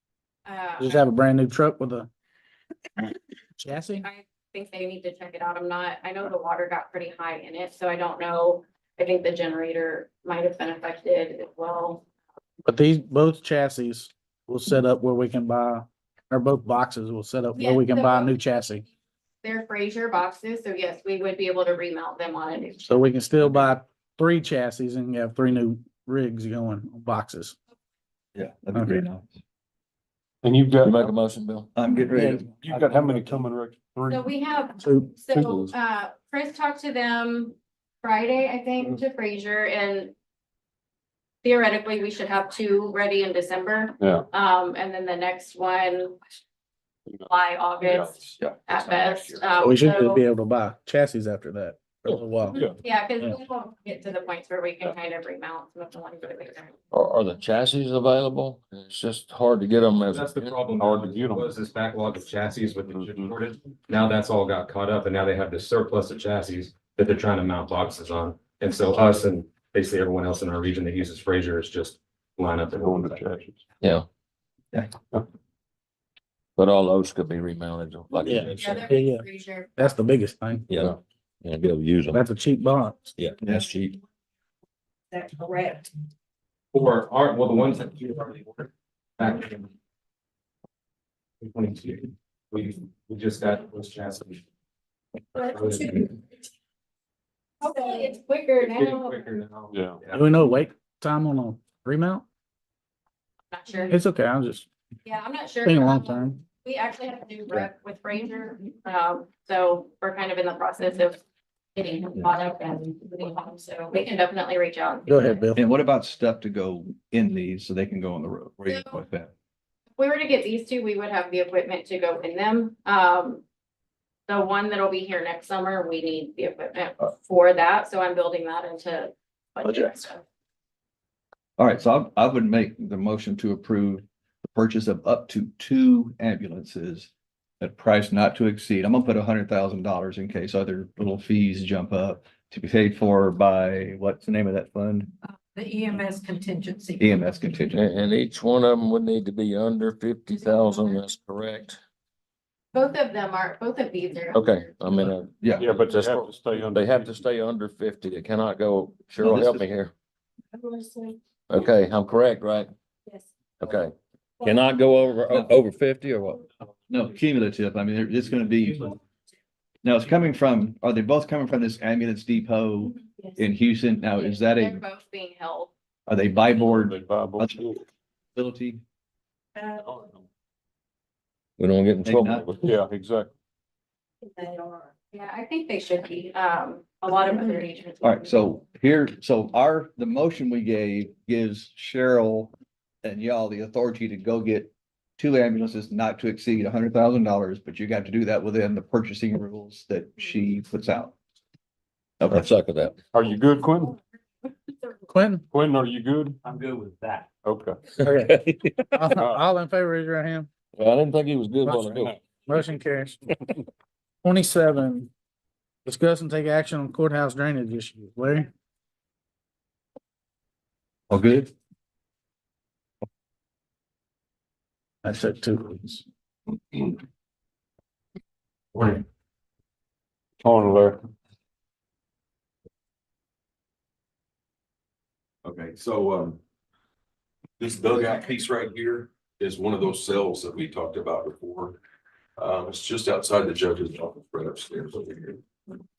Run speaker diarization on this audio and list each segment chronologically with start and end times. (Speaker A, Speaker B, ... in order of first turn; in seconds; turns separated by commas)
Speaker A: 0.5-1.0, Speaker B: 0.8-2.1, Speaker B: 3.6-4.0, Speaker A: 4.0-12.1, Speaker B: 12.6-18.8, Speaker A: 17.5-18.4, Speaker A: 19.4-22.9, Speaker B: 22.8-27.6, Speaker C: 28.3-29.3, Speaker B: 28.7-29.0, Speaker D: 30.4-31.1, Speaker E: 30.8-31.7, Speaker C: 31.8-32.5, Speaker B: 32.1-33.4, Speaker D: 32.6-34.3, Speaker A: 34.1-40.1, Speaker B: 34.8-35.1, Speaker A: 41.4-46.2, Speaker D: 44.0-44.2, Speaker A: 47.3-50.2, Speaker D: 47.8-48.1, Speaker F: 48.2-49.4, Speaker B: 49.6-52.6, Speaker A: 52.8-56.7, Speaker E: 56.9-60.6, Speaker G: 60.1-73.2, Speaker D: 60.8-61.5, Speaker D: 62.9-63.3, Speaker D: 72.8-73.6, Speaker E: 73.8-74.0, Speaker E: 76.6-78.9, Speaker B: 78.2-79.2, Speaker A: 78.6-79.8, Speaker B: 79.8-80.7, Speaker E: 80.7-82.2, Speaker B: 82.1-83.0, Speaker E: 83.2-83.9, Speaker C: 83.4-83.7, Speaker G: 85.3-85.7, Speaker H: 85.4-85.8, Speaker G: 86.7-88.7, Speaker G: 89.2-89.7, Speaker G: 91.4-94.4, Speaker G: 95.4-96.1, Speaker A: 97.6-99.3, Speaker G: 98.7-100.2, Speaker D: 99.7-100.0, Speaker B: 100.1-102.2, Speaker A: 103.5-103.9, Speaker B: 103.9-104.7, Speaker A: 105.0-111.2, Speaker B: 105.6-106.4, Speaker A: 111.7-115.4, Speaker B: 115.1-115.6, Speaker C: 115.5-119.3, Speaker A: 118.7-119.0, Speaker A: 120.0-123.4, Speaker A: 124.3-130.2, Speaker C: 131.6-145.1, Speaker H: 145.6-146.9, Speaker C: 147.0-147.8, Speaker E: 147.7-151.8, Speaker A: 152.7-154.8, Speaker E: 154.3-159.9, Speaker C: 155.4-155.7, Speaker D: 155.6-157.2, Speaker C: 159.2-159.7, Speaker E: 161.5-162.7, Speaker E: 163.6-166.4, Speaker C: 166.9-168.9, Speaker C: 169.8-174.8, Speaker A: 174.2-175.7, Speaker C: 176.1-177.7, Speaker D: 176.7-177.8, Speaker C: 178.3-178.8, Speaker D: 179.8-180.2, Speaker E: 181.6-182.6, Speaker C: 182.0-182.4, Speaker D: 182.5-183.3, Speaker H: 184.4-184.8, Speaker A: 185.1-188.5, Speaker C: 188.0-201.2, Speaker C: 202.2-202.5, Speaker E: 202.3-202.9, Speaker D: 203.1-204.0, Speaker B: 205.1-205.4, Speaker D: 205.5-206.4, Speaker D: 207.4-207.8, Speaker B: 208.0-208.4, Speaker E: 208.0-209.2, Speaker B: 208.9-210.5, Speaker D: 209.2-209.4, Speaker E: 210.8-212.1, Speaker D: 211.7-212.2, Speaker B: 212.4-213.2, Speaker B: 214.2-215.1, Speaker B: 215.8-218.5, Speaker C: 221.1-221.5, Speaker B: 225.0-226.0, Speaker D: 230.4-231.0, Speaker F: 235.4-236.4, Speaker F: 237.6-241.8, Speaker F: 242.4-245.4